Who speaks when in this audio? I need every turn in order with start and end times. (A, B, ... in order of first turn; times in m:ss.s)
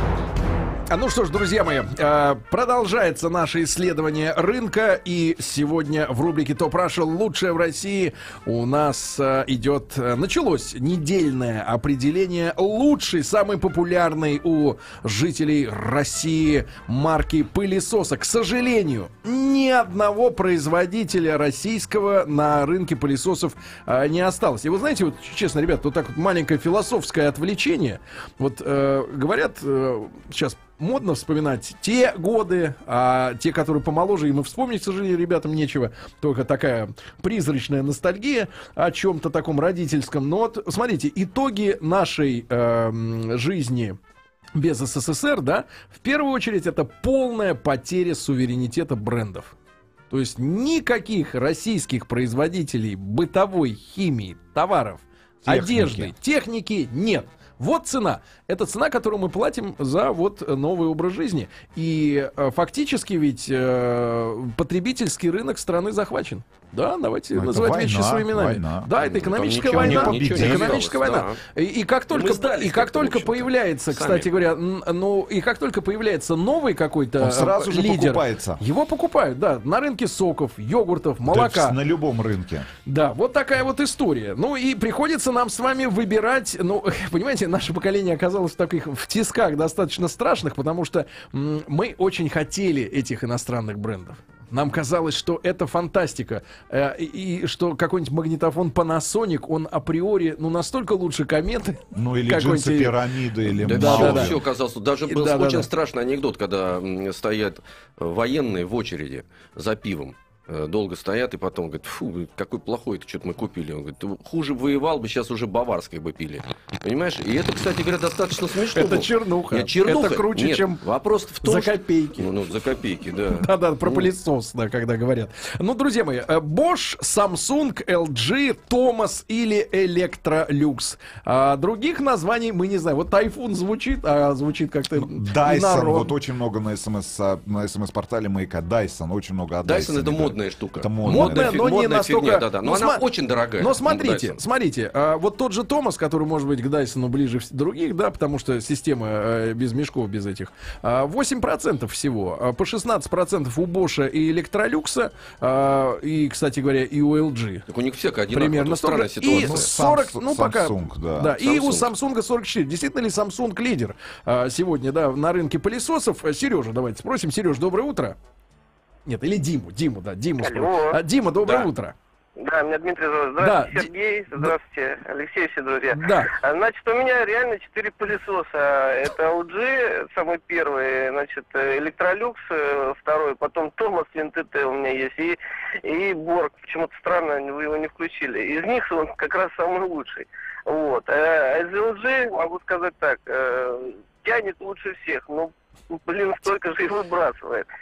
0:00.9-0:44.0 A
0:44.5-0:49.5 A
0:50.1-1:21.8 A
0:55.4-0:56.1 B
1:07.3-1:08.9 B
1:09.0-1:11.4 C
1:09.6-1:10.8 B
1:12.1-1:14.3 C
1:17.2-1:18.6 B
1:21.3-1:22.7 B
1:22.8-1:43.0 A
1:41.9-1:44.4 B
1:43.5-1:44.4 A
1:43.6-2:04.1 C
1:45.1-1:45.7 A
1:58.7-2:00.8 A
2:01.4-2:02.3 A
2:03.4-2:16.1 A
2:15.0-2:21.6 B
2:19.6-2:24.4 C
2:21.0-2:23.0 A
2:23.6-2:37.6 A
2:37.7-2:39.7 C
2:38.3-2:48.2 A
2:39.2-2:41.3 B
2:41.4-2:41.9 C
2:49.0-2:51.9 A
2:50.4-2:51.0 D
2:52.4-3:17.6 D
2:53.4-2:54.6 A
2:55.9-2:56.3 A